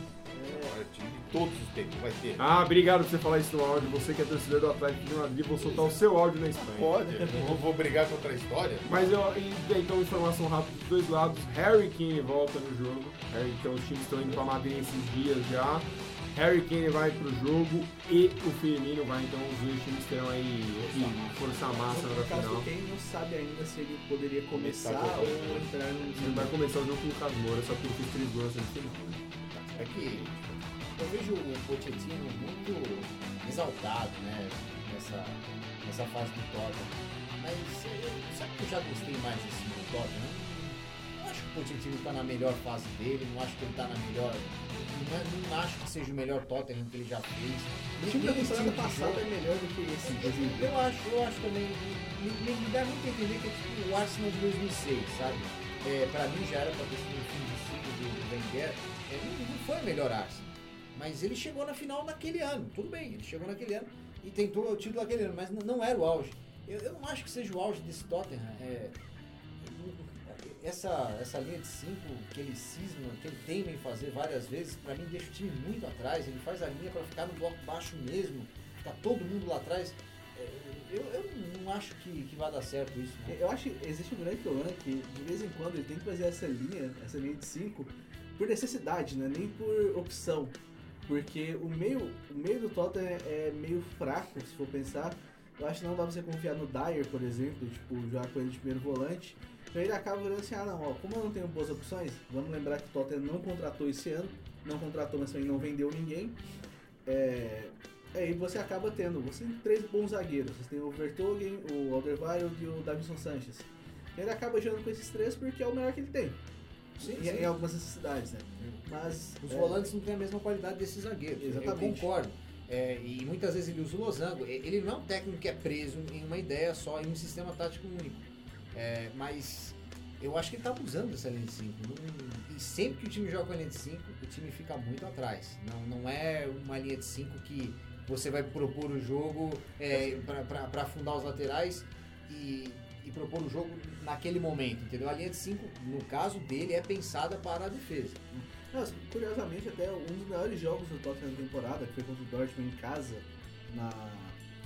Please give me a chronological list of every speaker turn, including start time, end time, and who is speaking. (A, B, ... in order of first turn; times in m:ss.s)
0:00.3-0:00.8 A
0:00.4-0:02.5 B
0:02.4-0:07.0 C
0:05.5-0:09.2 B
0:07.2-0:07.6 A
0:08.8-0:22.7 C
0:14.3-0:14.5 B
0:20.8-0:22.0 B
0:21.9-0:26.6 A
0:24.5-0:26.1 B
0:26.2-0:29.2 C
0:29.5-0:30.7 B
0:29.8-0:30.3 D
0:31.0-0:49.3 D
0:48.0-0:50.7 A
0:50.0-1:09.0 D
1:09.6-1:23.4 D
1:23.3-1:46.4 A
1:47.0-1:56.4 A
1:57.0-1:57.5 D
1:57.0-1:59.9 A
1:59.4-2:28.2 D
2:01.4-2:02.1 A
2:19.9-2:20.2 A
2:28.3-2:34.4 A